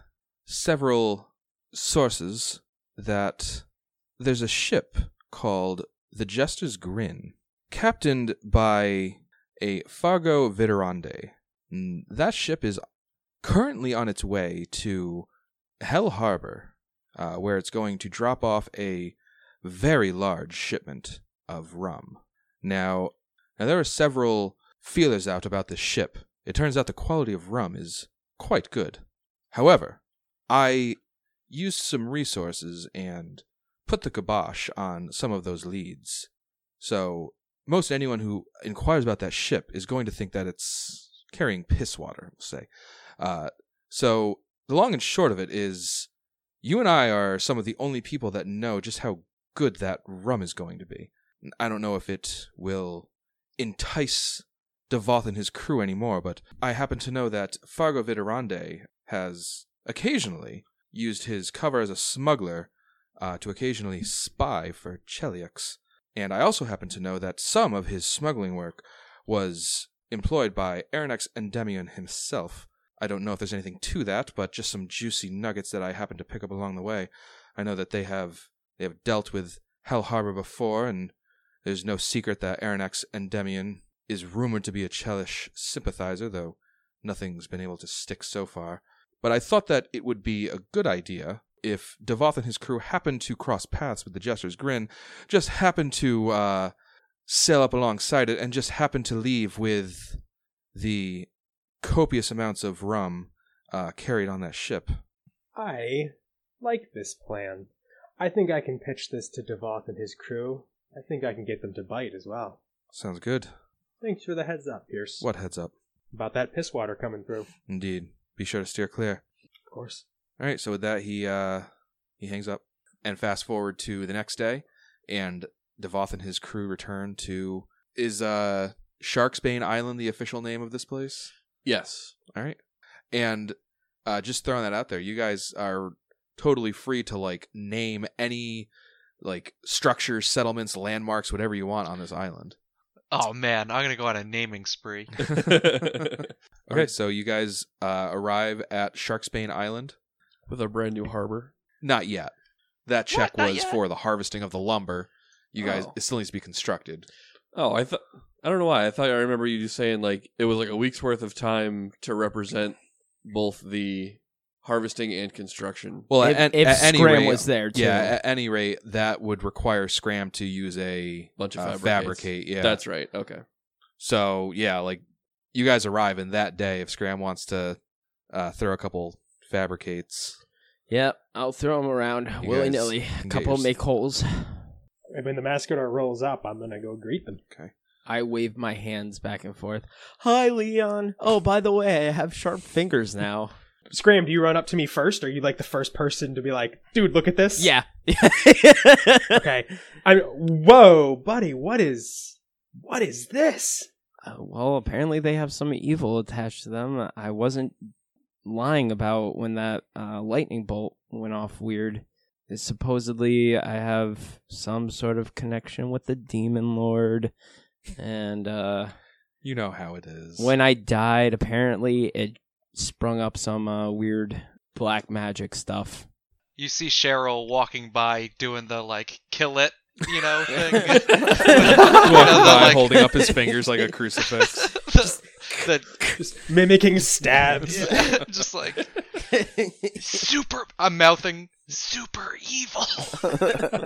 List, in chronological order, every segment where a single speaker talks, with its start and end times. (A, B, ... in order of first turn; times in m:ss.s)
0:00.5-0:03.7 A
0:04.2-0:12.8 A
0:13.4-0:15.3 A
0:15.8-0:31.0 A
0:31.5-0:46.1 A
0:46.6-1:36.7 A
1:37.3-1:40.2 A
1:40.7-1:41.3 A
1:41.8-1:45.0 A
1:45.6-1:52.6 B
1:52.9-1:53.5 A
1:54.0-1:55.2 B
1:55.2-1:55.7 A
1:56.1-1:57.5 B
1:57.7-1:59.2 A
1:59.7-2:00.0 B
2:00.4-2:01.7 A
2:02.2-2:11.3 A
2:11.6-2:12.2 C
2:13.1-2:18.7 A
2:19.2-2:22.6 A
2:23.1-2:25.2 D
2:25.3-2:26.9 C
2:26.7-2:30.0 A
2:30.5-2:31.5 C
2:31.8-2:32.3 A
2:32.9-2:37.1 A
2:33.1-2:33.8 D
2:35.6-2:35.9 C
2:37.5-2:46.1 C
2:46.1-2:52.8 A
2:46.2-2:48.2 E
2:51.4-2:53.4 C
2:54.0-2:57.8 A
2:58.3-3:00.4 A
3:00.9-3:04.8 E
3:02.4-3:03.7 A
3:05.2-3:07.4 B
3:08.1-3:13.6 E
3:13.9-3:17.7 B
3:17.6-3:19.4 E
3:19.4-3:23.9 B
3:24.2-3:27.9 E
3:28.4-3:37.3 E
3:38.0-3:38.9 E
3:39.4-3:40.5 A
3:40.4-3:46.1 E
3:46.6-3:53.1 D
3:50.5-3:52.8 E
3:51.7-3:54.7 A
3:54.7-3:56.0 D
3:56.2-3:58.2 B
3:57.7-3:58.9 D
3:59.3-4:00.2 E
4:00.0-4:03.6 D